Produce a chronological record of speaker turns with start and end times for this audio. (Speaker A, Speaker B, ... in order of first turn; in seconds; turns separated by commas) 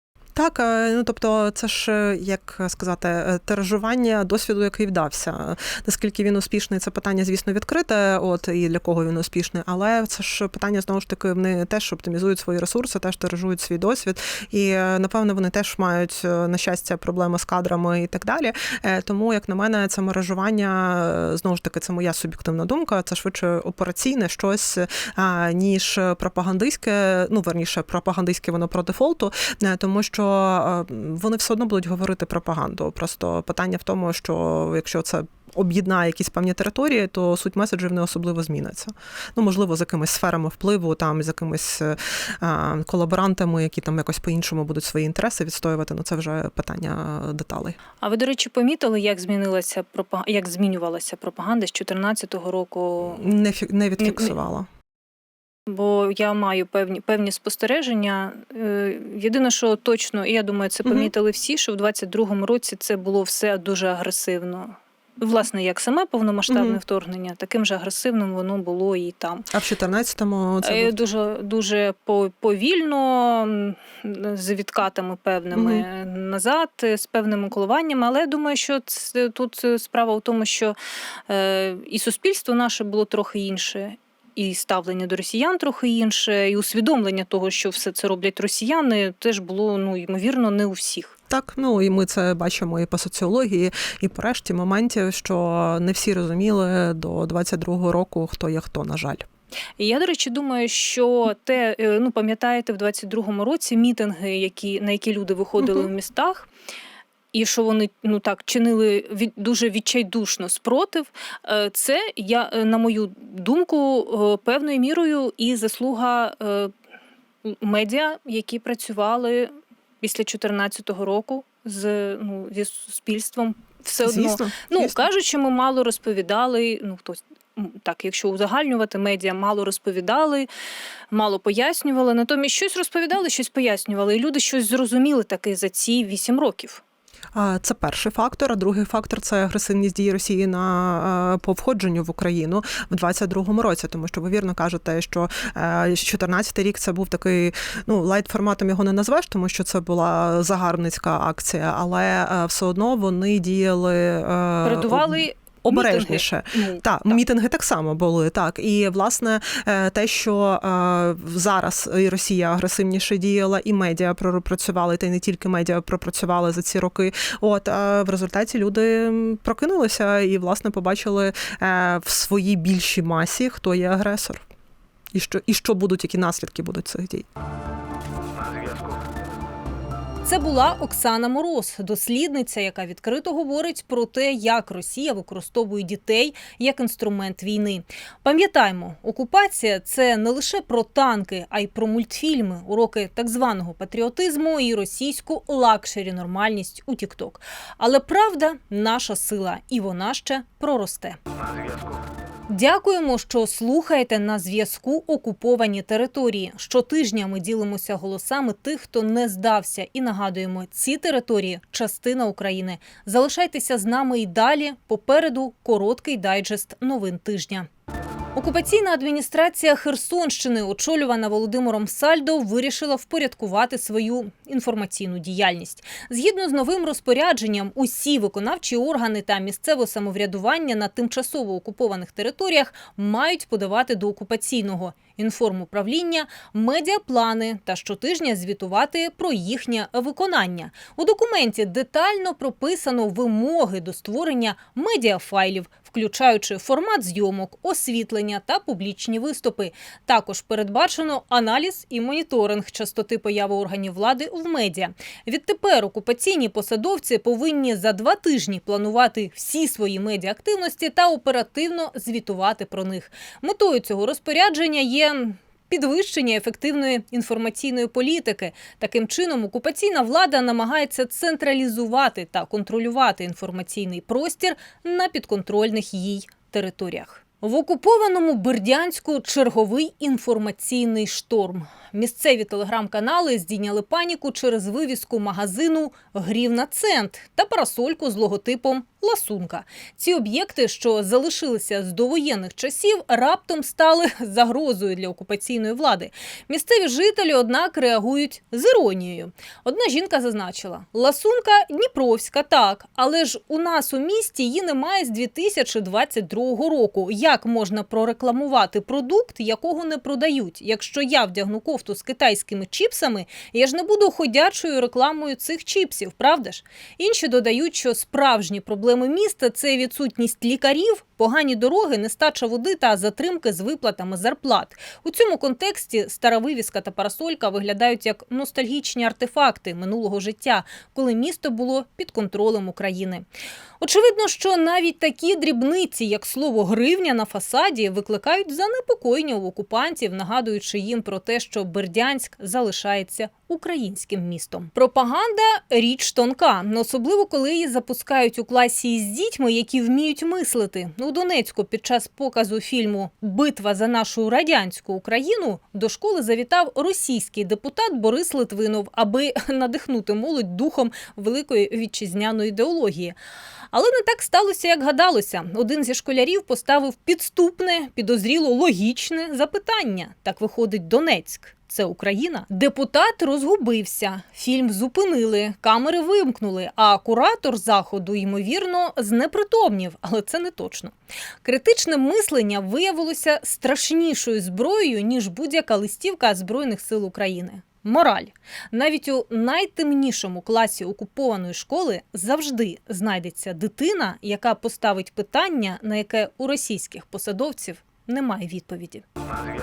Speaker A: 0.3-47.8, Speaker B: 48.0-53.3, Speaker A: 53.0-54.7, Speaker B: 54.0-54.4, Speaker B: 55.7-69.5, Speaker A: 60.8-61.1, Speaker A: 66.5-66.8, Speaker A: 69.5-70.9, Speaker B: 70.6-80.8, Speaker A: 75.5-75.8, Speaker B: 81.3-91.2, Speaker A: 91.3-99.3, Speaker B: 99.8-106.5, Speaker A: 105.6-105.9, Speaker B: 107.3-116.7, Speaker B: 117.4-130.5, Speaker A: 124.0-125.0, Speaker B: 131.1-136.8, Speaker A: 137.3-174.4, Speaker B: 154.6-157.2, Speaker A: 175.1-177.3, Speaker B: 180.2-201.2, Speaker B: 202.5-217.7, Speaker B: 218.3-333.2, Speaker B: 333.8-363.1, Speaker B: 363.7-399.0